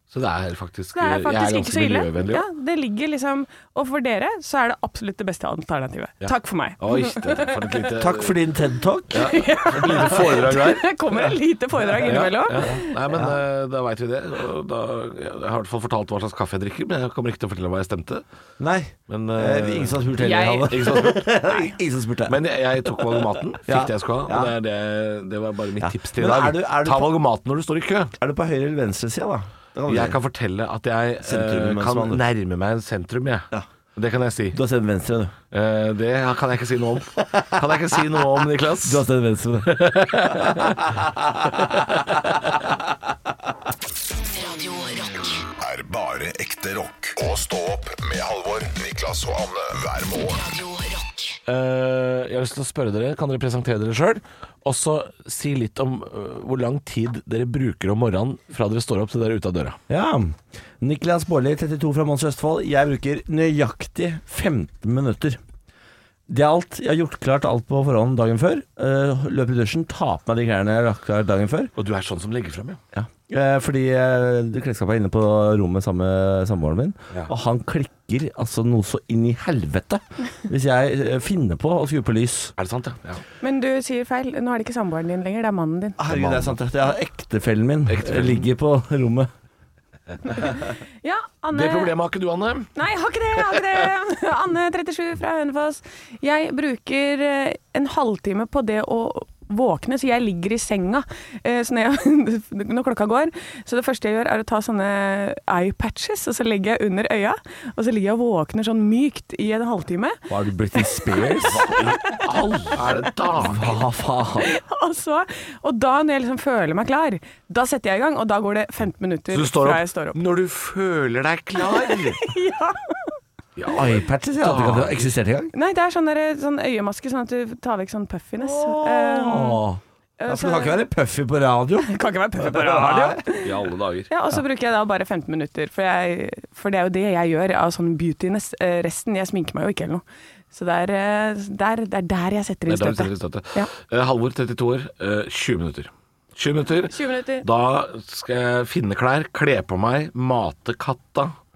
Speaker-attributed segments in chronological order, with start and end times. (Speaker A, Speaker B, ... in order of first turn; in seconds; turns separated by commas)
Speaker A: 0.1-2.4, Speaker B: 0.9-7.7, Speaker A: 6.2-8.4, Speaker C: 8.0-9.3, Speaker A: 9.1-11.0, Speaker B: 9.2-13.0, Speaker A: 12.0-18.2, Speaker C: 12.6-13.4, Speaker C: 18.6-24.5, Speaker A: 19.1-21.5, Speaker B: 20.2-20.9, Speaker A: 22.3-28.1, Speaker C: 25.8-27.1, Speaker C: 28.1-30.2, Speaker A: 29.9-34.6, Speaker C: 31.2-32.2, Speaker C: 34.5-35.3, Speaker A: 35.5-39.0, Speaker C: 38.7-42.3, Speaker A: 39.6-40.9, Speaker A: 41.6-42.0, Speaker D: 44.3-45.4, Speaker E: 45.6-50.4, Speaker D: 50.3-51.4, Speaker A: 51.5-59.8, Speaker C: 59.9-65.4, Speaker C: 66.3-71.7, Speaker A: 71.8-72.8, Speaker C: 72.9-82.5, Speaker A: 82.6-83.2, Speaker B: 83.4-86.0, Speaker C: 86.0-89.3, Speaker A: 86.1-86.6, Speaker A: 87.9-88.5, Speaker B: 90.3-91.9, Speaker A: 91.5-92.7, Speaker B: 92.7-110.2, Speaker C: 110.3-111.8, Speaker B: 110.8-113.1, Speaker A: 111.4-113.8, Speaker C: 113.3-114.5, Speaker B: 114.4-120.2, Speaker A: 119.3-122.3, Speaker B: 121.6-123.2, Speaker A: 123.5-125.1, Speaker C: 123.7-125.5, Speaker B: 125.5-129.6, Speaker C: 128.4-133.3, Speaker B: 130.2-130.8, Speaker B: 131.8-133.5, Speaker A: 133.4-134.1, Speaker B: 134.1-143.7, Speaker A: 142.7-151.3, Speaker B: 146.9-147.5